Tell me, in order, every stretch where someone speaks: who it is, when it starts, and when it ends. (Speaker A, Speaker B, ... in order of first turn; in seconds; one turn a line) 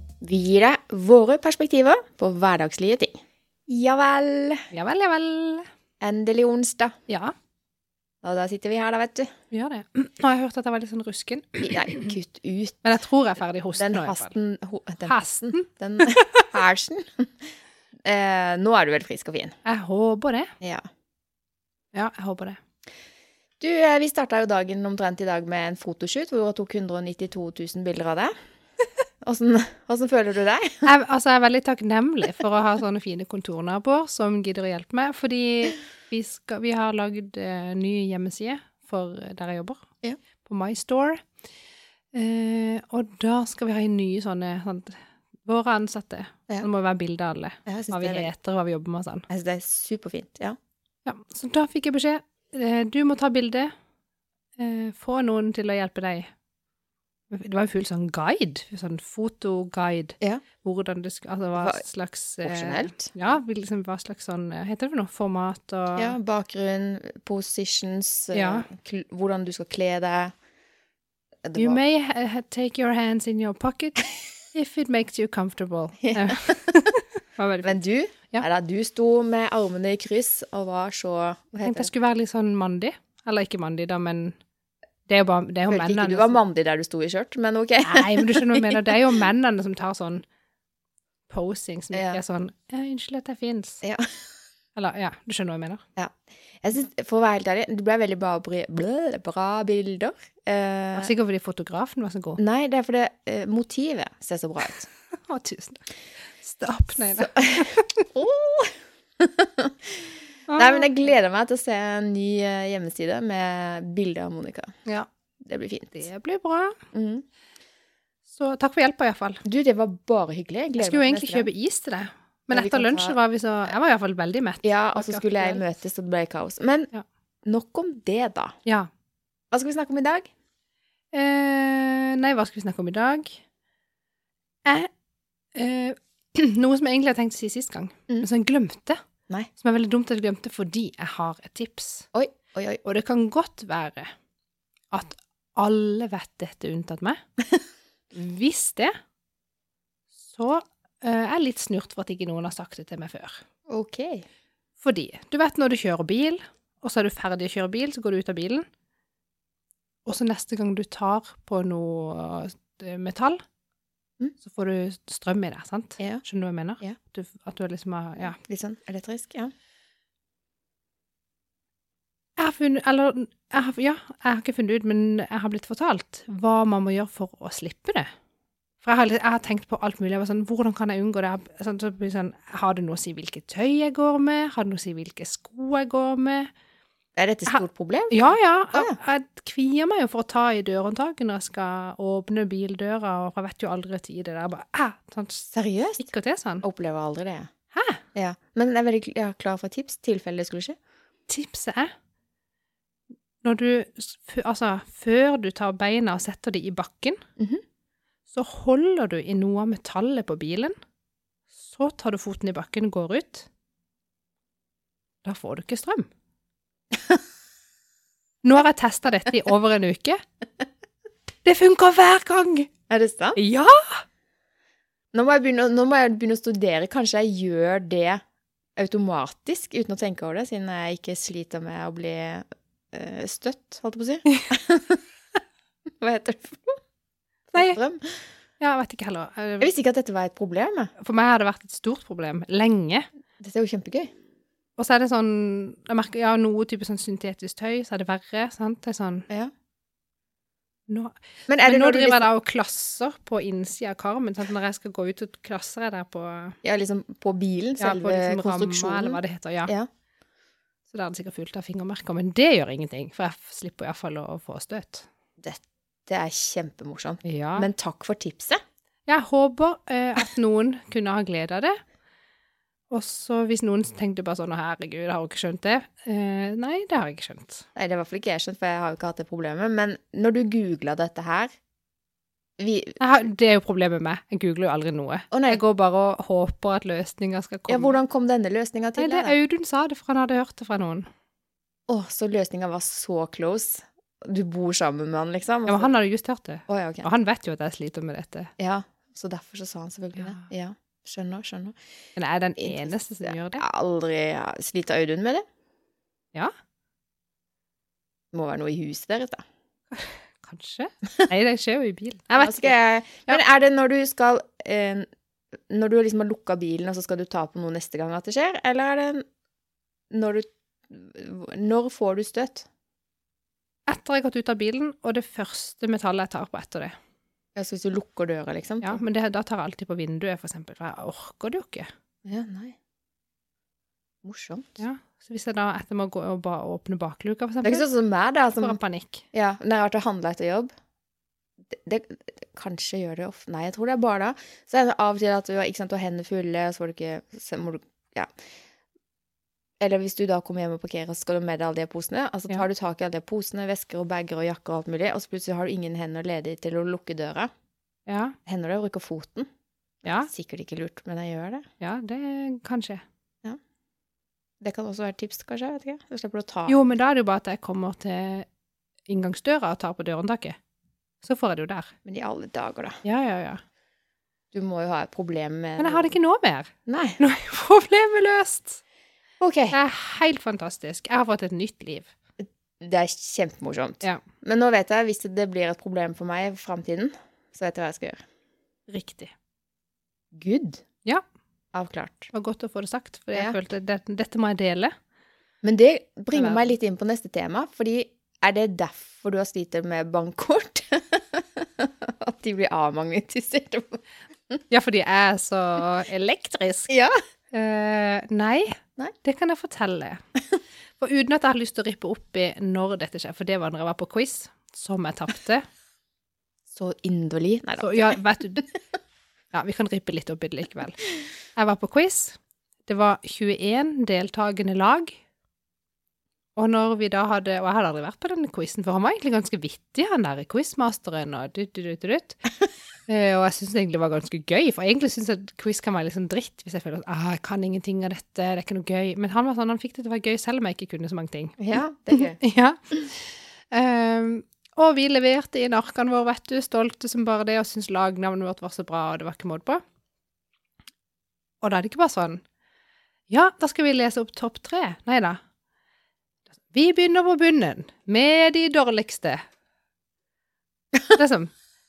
Speaker A: 0.2-4.7
Speaker B: 4.7-5.7
Speaker A: 6.0-7.0
Speaker B: 7.1-7.3
Speaker A: 8.2-9.3
Speaker B: 9.5-12.1
Speaker A: 11.6-12.8
Speaker B: 12.8-14.3
Speaker A: 13.8-17.3
Speaker B: 15.1-16.5
Speaker A: 18.1-19.5
Speaker B: 19.6-20.5
Speaker B: 21.9-22.6
Speaker A: 23.6-28.3
Speaker A: 29.2-30.9
Speaker B: 30.8-39.9
Speaker B: 40.4-41.3
Speaker B: 42.1-49.3
Speaker A: 47.7-48.3
Speaker A: 49.3-50.6
Speaker B: 51.1-53.7
Speaker B: 54.6-56.3
Speaker B: 57.3-66.2
Speaker A: 62.4-63.1
Speaker A: 66.0-70.3
Speaker B: 68.3-68.7
Speaker A: 71.4-71.8
Speaker B: 71.6-77.8
Speaker A: 76.0-76.8
Speaker A: 77.6-81.9
Speaker B: 81.6-84.4
Speaker B: 85.1-86.4
Speaker A: 85.7-88.9
Speaker B: 87.8-90.2
Speaker B: 91.3-93.8
Speaker A: 91.9-92.2
Speaker A: 93.8-94.2
Speaker B: 94.8-95.8
Speaker A: 96.0-101.1
Speaker B: 101.0-102.4
Speaker A: 102.4-104.9
Speaker B: 105.2-105.8
Speaker B: 106.4-108.0
Speaker A: 107.2-114.7
Speaker B: 110.5-110.9
Speaker A: 115.4-116.0
Speaker B: 116.0-116.8
Speaker A: 116.9-117.2
Speaker B: 118.3-119.4
Speaker A: 119.5-121.5
Speaker B: 120.8-125.6
Speaker A: 122.5-123.2
Speaker A: 124.6-126.9
Speaker A: 127.5-128.6
Speaker A: 129.5-130.3
Speaker B: 131.1-133.4
Speaker B: 135.6-139.0
Speaker B: 139.6-142.1
Speaker A: 142.1-142.8
Speaker B: 142.8-144.1
Speaker B: 144.9-147.2
Speaker B: 148.1-148.9
Speaker B: 150.3-153.4
Speaker A: 153.7-154.3
Speaker B: 154.8-158.7
Speaker B: 160.1-163.4
Speaker B: 164.4-168.4
Speaker A: 168.4-169.5
Speaker B: 172.4-178.1
Speaker B: 178.8-186.5
Speaker A: 187.2-189.0
Speaker B: 187.5-195.5
Speaker A: 195.5-196.1
Speaker B: 196.0-196.7
Speaker A: 196.6-197.5
Speaker B: 197.7-198.0
Speaker A: 198.2-200.8
Speaker B: 201.3-201.9
Speaker B: 203.4-207.2
Speaker B: 208.3-210.7
Speaker B: 211.6-213.5
Speaker B: 215.2-216.1
Speaker B: 218.4-220.2
Speaker B: 221.4-222.7
Speaker A: 222.9-223.4
Speaker B: 223.4-224.0
Speaker A: 225.1-228.2
Speaker A: 228.8-235.0
Speaker A: 235.9-236.8
Speaker A: 237.5-238.2
Speaker B: 237.5-237.8
Speaker B: 238.6-239.7
Speaker A: 239.6-240.9
Speaker B: 241.0-243.1
Speaker A: 243.4-244.1
Speaker B: 244.8-249.3
Speaker B: 250.9-256.6
Speaker A: 251.5-252.3
Speaker A: 256.6-259.9
Speaker B: 257.8-259.7
Speaker B: 260.9-265.1
Speaker A: 265.4-268.6
Speaker B: 267.2-267.7
Speaker B: 269.1-271.8
Speaker B: 272.9-277.7
Speaker A: 277.8-281.5
Speaker A: 282.6-283.0
Speaker B: 283.0-288.0
Speaker A: 285.3-285.6
Speaker A: 287.7-289.4
Speaker B: 289.0-291.1
Speaker A: 291.9-295.9
Speaker B: 295.7-298.5
Speaker A: 296.7-297.1
Speaker A: 298.6-301.8
Speaker B: 300.2-300.5
Speaker B: 302.2-303.6
Speaker A: 302.6-305.4
Speaker A: 308.3-309.4
Speaker B: 309.9-312.7
Speaker A: 312.4-315.1
Speaker A: 315.7-319.2
Speaker A: 320.1-322.7
Speaker B: 323.9-326.9
Speaker A: 327.6-329.0
Speaker B: 328.8-331.9
Speaker A: 332.2-332.8
Speaker A: 334.2-334.7
Speaker B: 334.8-337.9
Speaker A: 337.6-338.8
Speaker B: 338.6-339.2
Speaker A: 339.3-340.7
Speaker A: 341.7-348.3
Speaker A: 349.8-357.5
Speaker B: 358.1-358.4
Speaker A: 358.5-359.5
Speaker A: 360.0-361.6
Speaker B: 361.8-363.0
Speaker A: 364.6-366.8
Speaker B: 366.7-368.5
Speaker B: 369.1-370.6
Speaker B: 371.2-371.9
Speaker A: 372.1-373.0
Speaker B: 373.0-373.6
Speaker A: 374.5-376.1
Speaker B: 375.8-378.8
Speaker A: 376.9-377.2
Speaker A: 379.4-379.8
Speaker B: 379.7-382.1
Speaker A: 382.8-388.2
Speaker B: 388.9-389.3
Speaker A: 390.3-390.8
Speaker A: 391.7-392.3
Speaker B: 392.3-394.9
Speaker A: 395.6-404.6
Speaker B: 396.3-396.7
Speaker B: 404.7-406.9
Speaker A: 406.9-407.2
Speaker B: 407.5-410.2
Speaker B: 411.0-415.7
Speaker A: 416.7-418.2
Speaker B: 417.8-418.7
Speaker B: 419.5-425.2
Speaker B: 426.6-432.4
Speaker B: 433.1-441.6
Speaker A: 441.6-442.4
Speaker B: 442.1-449.8
Speaker B: 451.6-452.4
Speaker B: 453.3-455.4
Speaker B: 456.7-459.4
Speaker B: 461.1-461.5